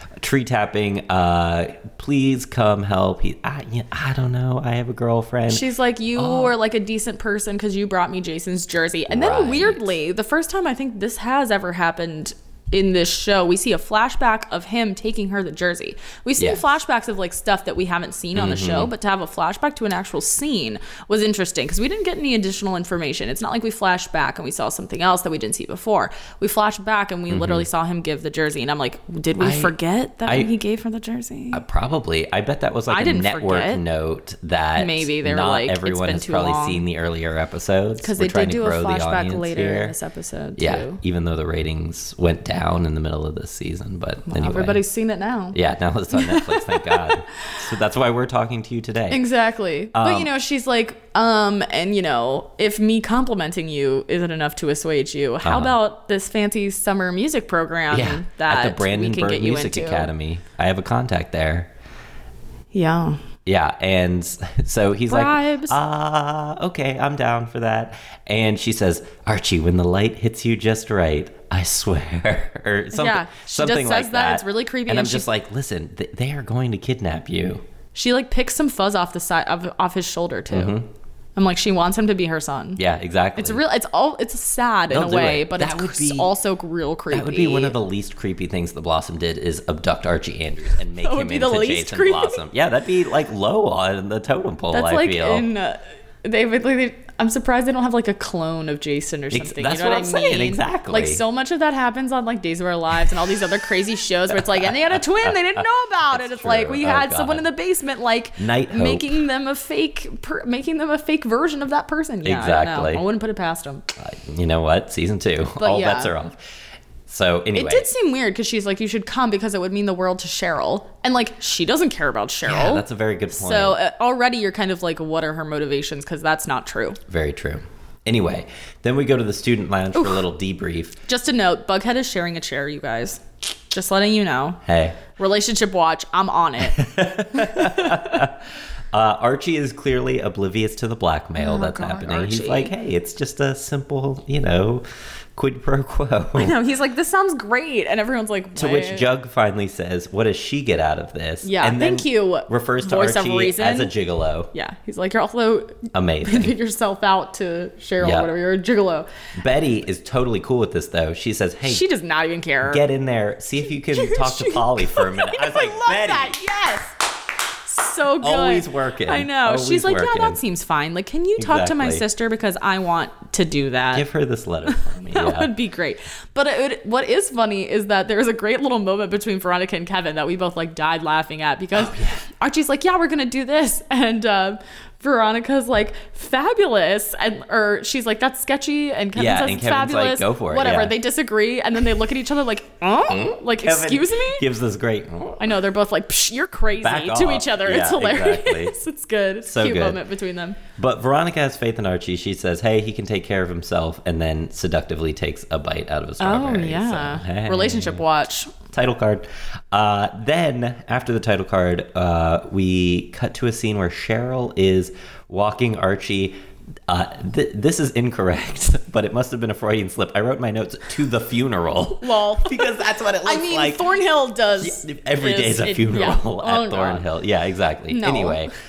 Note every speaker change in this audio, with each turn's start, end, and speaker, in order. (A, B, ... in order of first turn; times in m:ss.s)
0:00.2-0:05.6 A
0:05.5-0:31.6 B
0:06.2-0:06.5 A
0:09.1-0:09.9 A
0:16.4-0:16.6 A
0:18.4-0:18.9 A
0:27.3-0:27.7 A
0:29.4-0:29.8 A
0:31.5-0:40.0 A
0:32.9-0:33.8 B
0:34.8-0:36.8 B
0:38.0-0:41.0 B
0:40.6-0:44.8 A
0:44.3-0:45.6 B
0:45.5-0:49.2 A
0:46.1-0:47.2 B
0:49.1-1:00.1 B
0:49.9-0:50.3 A
0:55.4-0:55.8 A
0:57.9-1:01.7 A
1:02.7-1:03.2 B
1:03.5-1:17.6 A
1:05.1-1:05.8 B
1:12.9-1:15.3 B
1:17.9-1:20.8 B
1:20.5-1:20.9 A
1:21.4-1:22.8 B
1:22.8-1:23.6 A
1:23.4-1:27.8 B
1:24.9-1:26.3 A
1:27.1-1:35.5 A
1:31.0-1:32.4 B
1:34.7-1:53.8 B
1:39.3-1:41.2 A
1:44.6-1:47.5 A
1:48.4-1:49.2 A
1:52.2-1:53.0 A
1:54.0-1:56.4 A
1:55.6-1:56.1 B
1:57.1-1:57.9 A
1:57.6-2:07.0 B
2:02.5-2:03.8 A
2:07.1-2:11.0 A
2:10.0-2:10.2 B
2:11.1-2:18.2 B
2:14.7-2:15.0 A
2:16.6-2:24.8 A
2:21.4-2:22.7 B
2:25.4-2:26.6 A
2:26.4-2:29.1 B
2:28.6-2:34.5 A
2:31.4-2:33.9 B
2:34.5-2:39.1 B
2:35.9-2:36.6 A
2:38.0-2:38.3 A
2:39.4-2:41.8 A
2:41.6-2:42.8 B
2:42.6-2:46.4 A
2:43.8-2:47.0 B
2:47.6-2:54.1 B
2:48.2-2:50.4 A
2:51.4-2:52.0 A
2:53.9-2:55.5 A
2:54.7-3:14.5 B
3:01.8-3:02.2 A
3:09.2-3:11.0 A
3:13.1-3:15.4 A
3:15.4-3:20.6 B
3:16.8-3:18.8 A
3:19.4-3:20.0 A
3:20.8-3:28.0 A
3:26.2-3:28.5 B
3:28.7-3:36.4 A
3:36.9-3:43.9 A
3:42.0-3:47.0 B
3:44.6-3:48.5 A
3:47.9-3:48.5 B